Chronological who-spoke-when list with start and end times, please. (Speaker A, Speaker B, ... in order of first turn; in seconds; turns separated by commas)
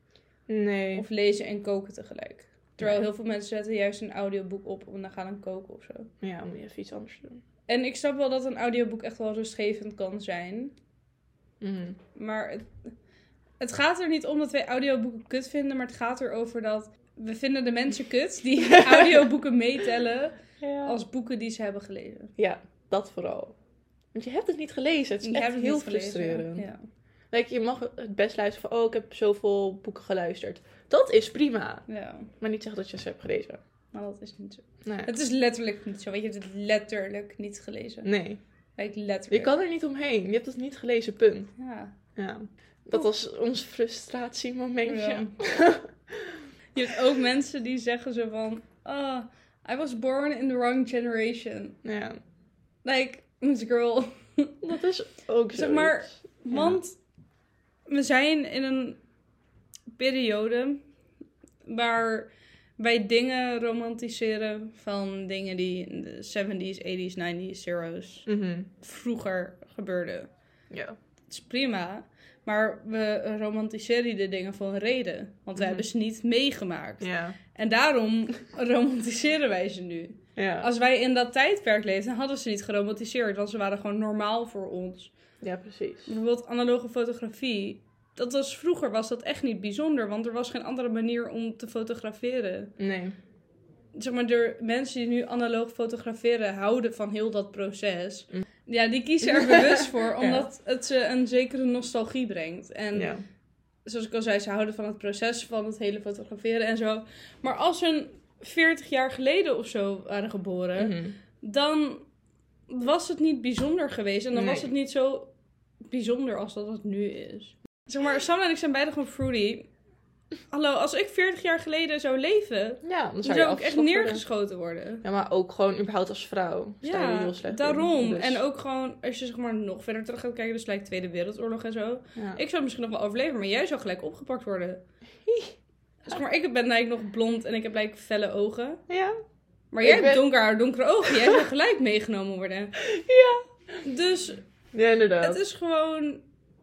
Speaker A: 0.5-1.0, Speaker B: 0.9-6.1, Speaker A: 2.8-3.0, Speaker A: 6.2-7.4, Speaker B: 7.7-10.7, Speaker A: 11.6-12.0, Speaker B: 12.1-12.7, Speaker B: 13.6-22.3, Speaker A: 18.7-19.3, Speaker A: 20.6-21.0, Speaker A: 22.4-23.6, Speaker A: 24.1-26.6, Speaker B: 25.2-26.9, Speaker A: 27.3-31.9, Speaker B: 31.9-32.3, Speaker A: 32.4-33.6, Speaker B: 33.9-38.1, Speaker A: 34.8-35.1, Speaker A: 38.0-38.4, Speaker B: 38.8-39.5, Speaker A: 39.3-41.5, Speaker B: 41.6-41.9, Speaker A: 42.1-46.1, Speaker B: 44.9-45.4, Speaker B: 46.7-51.8, Speaker A: 51.8-52.2, Speaker B: 52.8-54.5, Speaker A: 54.6-56.8, Speaker B: 55.5-57.0, Speaker B: 57.9-59.0, Speaker B: 60.0-60.8, Speaker B: 61.6-68.2, Speaker A: 68.2-68.7, Speaker B: 68.8-70.3, Speaker A: 70.7-71.0, Speaker B: 71.3-85.1, Speaker A: 75.5-75.8, Speaker A: 77.0-77.4, Speaker A: 80.3-80.7, Speaker A: 85.4-86.1, Speaker B: 86.1-92.7, Speaker A: 92.8-93.2, Speaker B: 94.0-103.1, Speaker A: 99.2-100.5, Speaker A: 102.9-103.2, Speaker B: 103.8-112.1, Speaker A: 110.7-111.2, Speaker B: 112.7-115.3, Speaker A: 114.3-114.7, Speaker B: 115.9-119.7, Speaker B: 120.5-125.0, Speaker A: 122.8-124.2, Speaker A: 125.0-128.4, Speaker B: 126.8-134.8, Speaker A: 132.2-132.4, Speaker A: 135.3-135.5, Speaker B: 136.0-138.8, Speaker A: 138.9-139.2, Speaker B: 139.7-142.7, Speaker A: 139.8-140.3, Speaker A: 142.8-143.4, Speaker B: 143.8-144.4, Speaker A: 144.7-145.4, Speaker B: 145.2-146.2